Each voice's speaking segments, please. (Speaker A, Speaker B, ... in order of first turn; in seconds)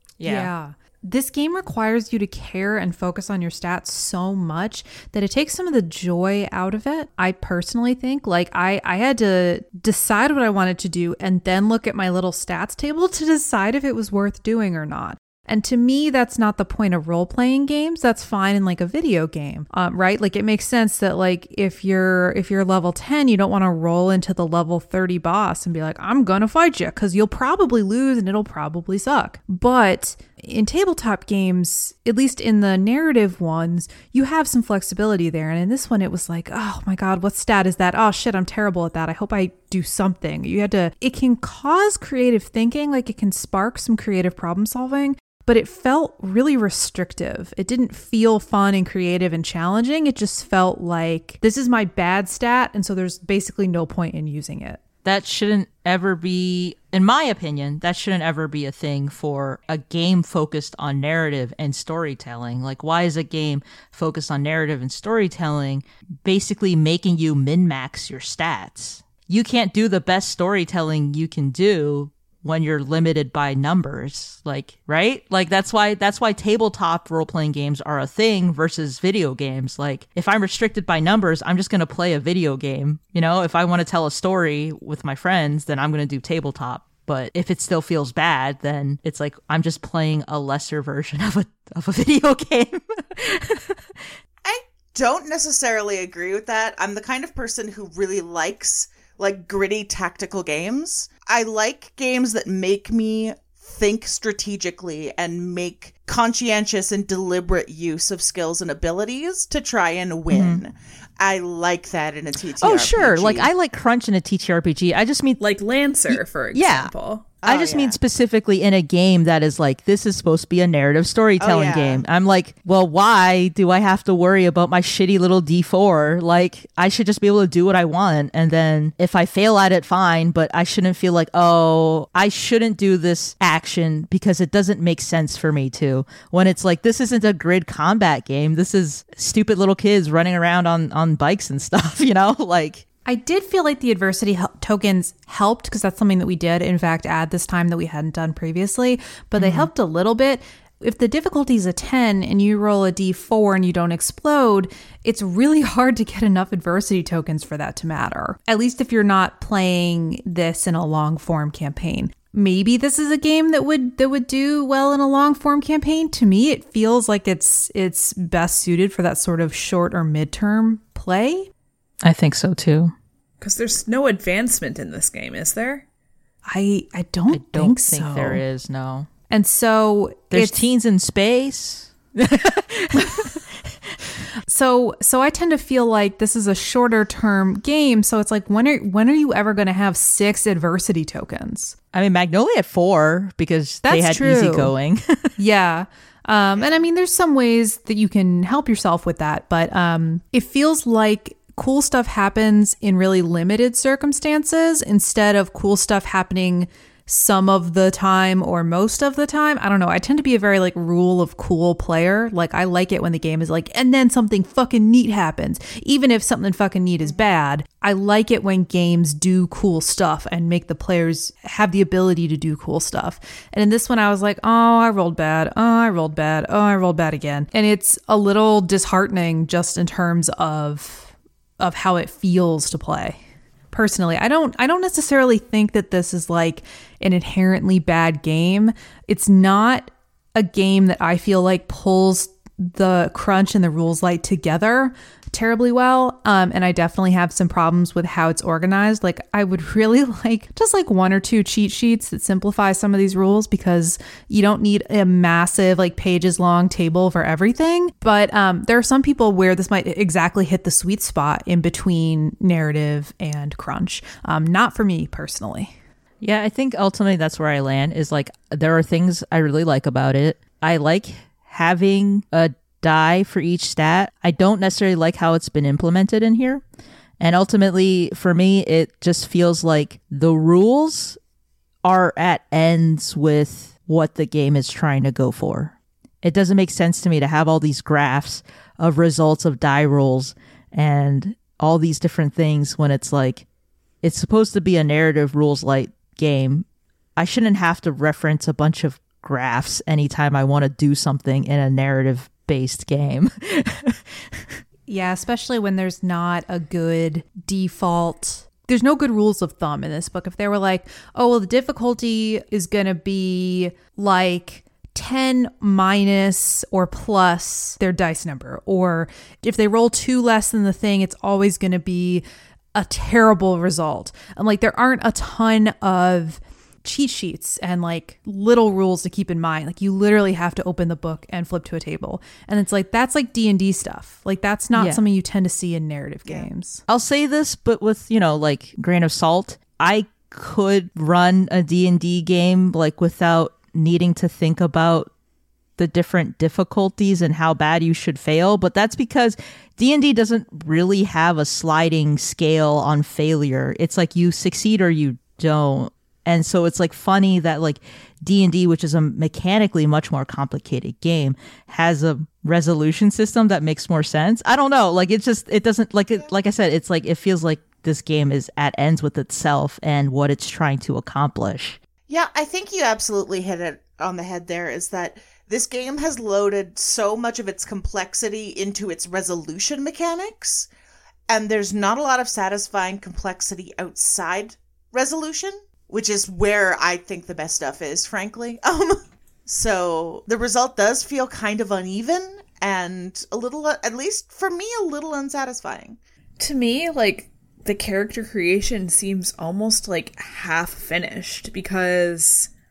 Speaker A: 0.2-0.5, 55.0-94.1, 110.3-110.6, 112.6-115.4, 116.1-142.8, 149.4-149.7, 172.0-172.9, 177.3-179.1, 180.3-183.7, 191.9-195.3, 266.2-276.6, 277.2-281.2, 281.8-293.4, 294.0-296.6, 297.2-304.6, 334.7-335.0, 336.9-345.1, 345.8-371.8
Speaker B: 0.2-54.8, 143.1-171.5, 176.5-178.4, 179.3-180.7, 184.5-191.7, 193.8-194.7, 195.4-233.2, 233.7-265.7, 304.9-322.2, 322.7-336.8
Speaker C: 94.4-113.5, 117.4-118.0, 121.4-122.0, 372.1-380.7, 381.3-396.0
Speaker D: 115.4-117.3, 173.4-175.8, 396.4-402.5